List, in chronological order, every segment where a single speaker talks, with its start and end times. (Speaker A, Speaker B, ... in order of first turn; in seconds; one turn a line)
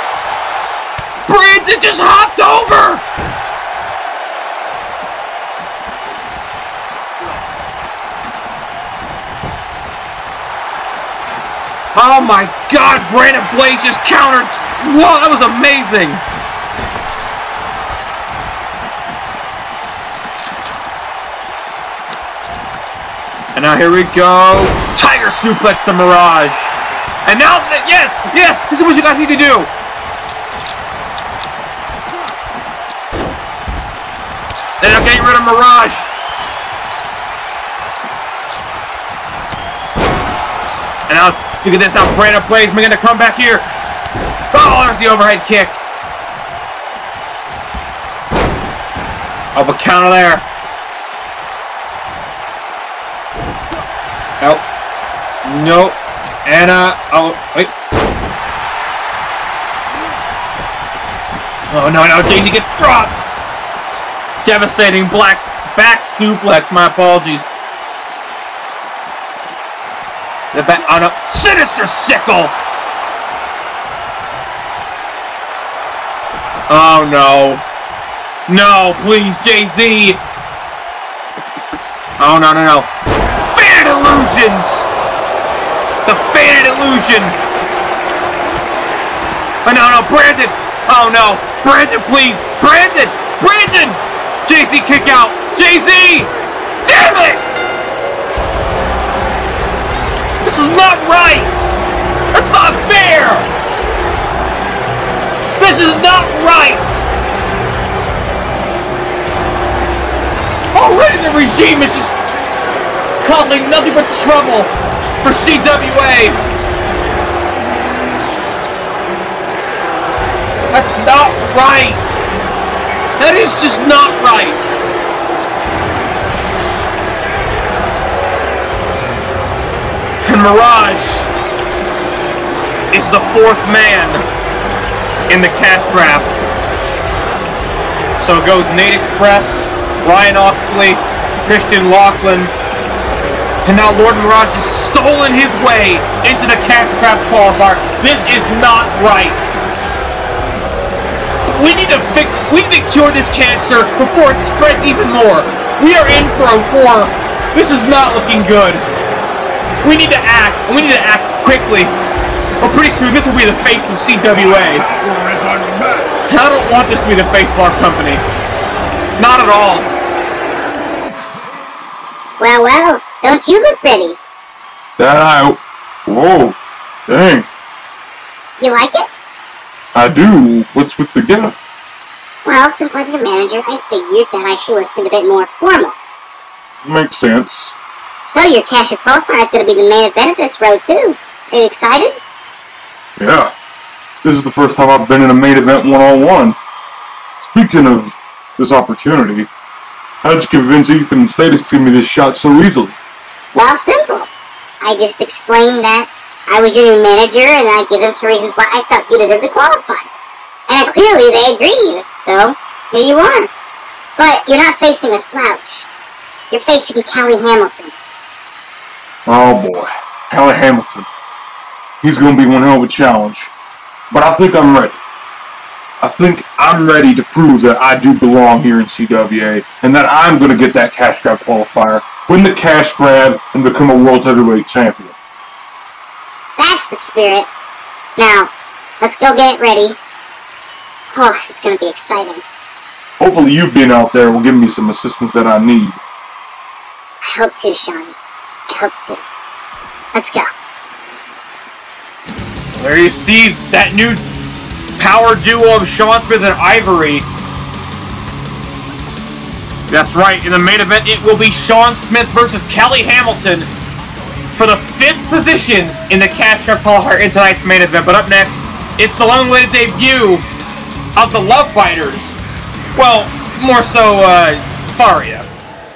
Speaker A: 1.3-3.0
Speaker A: 11.9-16.2
Speaker A: 23.6-26.7
Speaker A: 27.2-29.7
Speaker A: 34.8-36.1
Speaker A: 41.1-43.7
Speaker A: 44.5-45.8
Speaker A: 49.5-50.5
Speaker A: 55.4-57.7
Speaker A: 61.7-63.2
Speaker A: 64.5-67.5
Speaker A: 70.5-72.5
Speaker A: 76.7-77.6
Speaker A: 78.5-80.2
Speaker A: 82.2-82.9
Speaker A: 83.5-84.9
Speaker A: 86.1-87.4
Speaker A: 89.6-96.3
Speaker A: 96.8-97.7
Speaker A: 100.4-101.8
Speaker A: 102.3-103.5
Speaker A: 105.6-107.1
Speaker A: 110.7-112.2
Speaker A: 113.2-114.7
Speaker A: 115.2-116.4
Speaker A: 120.7-122.0
Speaker A: 123.2-124.8
Speaker A: 130.2-131.3
Speaker A: 132.9-134.2
Speaker A: 135.3-136.3
Speaker A: 138.2-142.5
Speaker A: 143.7-149.6
Speaker A: 151.5-158.8
Speaker A: 159.8-162.0
Speaker A: 162.6-164.8
Speaker B: 164.8-166.2
Speaker A: 166.3-168.2
Speaker A: 169.2-169.9
Speaker C: 172.4-174.2
Speaker B: 175.0-176.6
Speaker B: 177.1-177.5
Speaker C: 178.6-179.1
Speaker B: 179.9-181.6
Speaker C: 182.4-186.0
Speaker B: 186.8-187.8
Speaker C: 188.3-192.2
Speaker B: 193.2-193.5
Speaker B: 194.2-196.6
Speaker B: 197.4-199.5
Speaker B: 200.2-202.9
Speaker C: 203.5-204.3
Speaker C: 204.8-210.1
Speaker C: 210.7-213.5
Speaker C: 214.2-215.9
Speaker C: 216.5-217.9
Speaker B: 219.3-221.1
Speaker B: 222.0-223.5
Speaker B: 224.1-225.0
Speaker B: 226.0-235.2
Speaker C: 236.6-237.5
Speaker C: 238.2-238.5
Speaker C: 239.0-240.0
Speaker C: 241.1-242.4
Speaker B: 243.2-246.0
Speaker C: 247.2-248.2
Speaker C: 248.7-249.2
Speaker C: 250.1-250.5
Speaker A: 252.8-254.2
Speaker A: 255.0-257.3
Speaker A: 259.9-263.7
Speaker A: 264.6-270.4
Speaker A: 271.2-272.4
Speaker A: 273.0-275.5